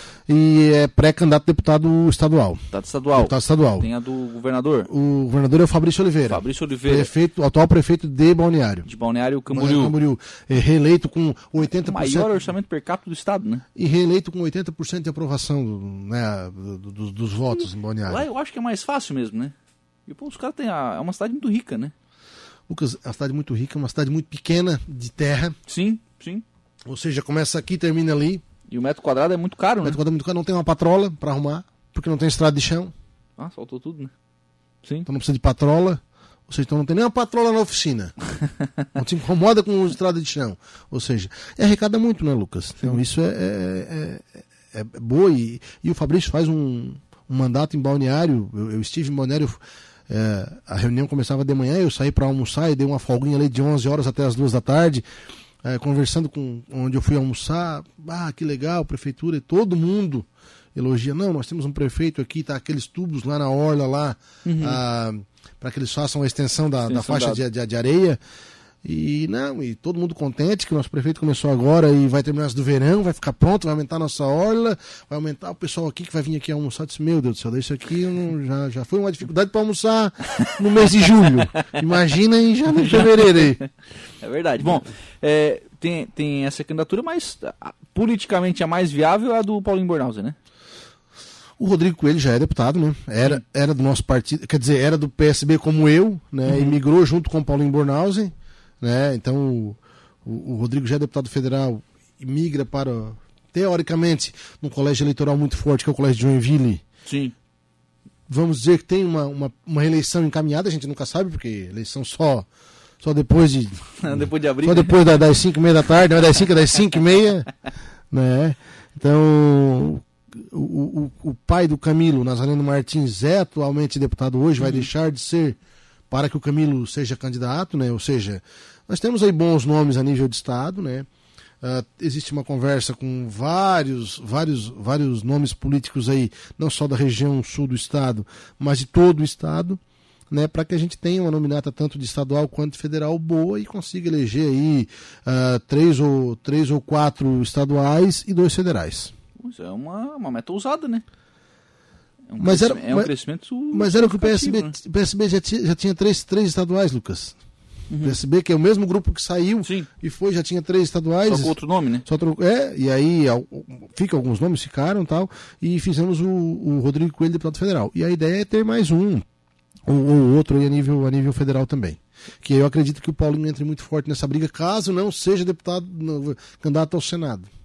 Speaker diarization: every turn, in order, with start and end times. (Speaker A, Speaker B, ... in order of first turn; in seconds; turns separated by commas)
Speaker A: 0.3-2.6, Speaker B: 2.7-4.9, Speaker A: 3.1-3.9, Speaker A: 4.9-8.9, Speaker B: 6.3-7.1, Speaker B: 8.8-9.9, Speaker A: 9.5-12.5, Speaker B: 11.6-13.6, Speaker A: 13.8-18.2, Speaker B: 17.5-19.5, Speaker B: 20.1-21.9, Speaker A: 22.7-25.5, Speaker B: 25.7-26.4, Speaker A: 26.9-28.4, Speaker B: 28.7-30.0, Speaker A: 29.8-32.9, Speaker B: 33.4-34.1, Speaker A: 35.0-38.1, Speaker A: 38.9-55.0, Speaker A: 55.6-68.2, Speaker B: 64.4-64.8, Speaker B: 66.8-67.4, Speaker A: 68.8-83.6, Speaker B: 82.8-83.7, Speaker B: 84.2-90.3, Speaker A: 91.6-106.8, Speaker B: 96.5-96.8, Speaker B: 107.0-107.3, Speaker A: 108.3-112.5, Speaker A: 113.0-117.5, Speaker B: 114.0-115.0, Speaker A: 118.1-125.6, Speaker B: 124.6-124.9, Speaker A: 126.1-131.1, Speaker A: 131.6-139.8, Speaker A: 140.3-149.1, Speaker B: 149.4-151.0, Speaker B: 152.3-154.7, Speaker A: 152.4-153.1, Speaker A: 153.7-157.4, Speaker B: 157.9-158.2, Speaker A: 158.0-169.2, Speaker B: 159.6-159.9, Speaker B: 161.2-162.0, Speaker A: 169.9-177.5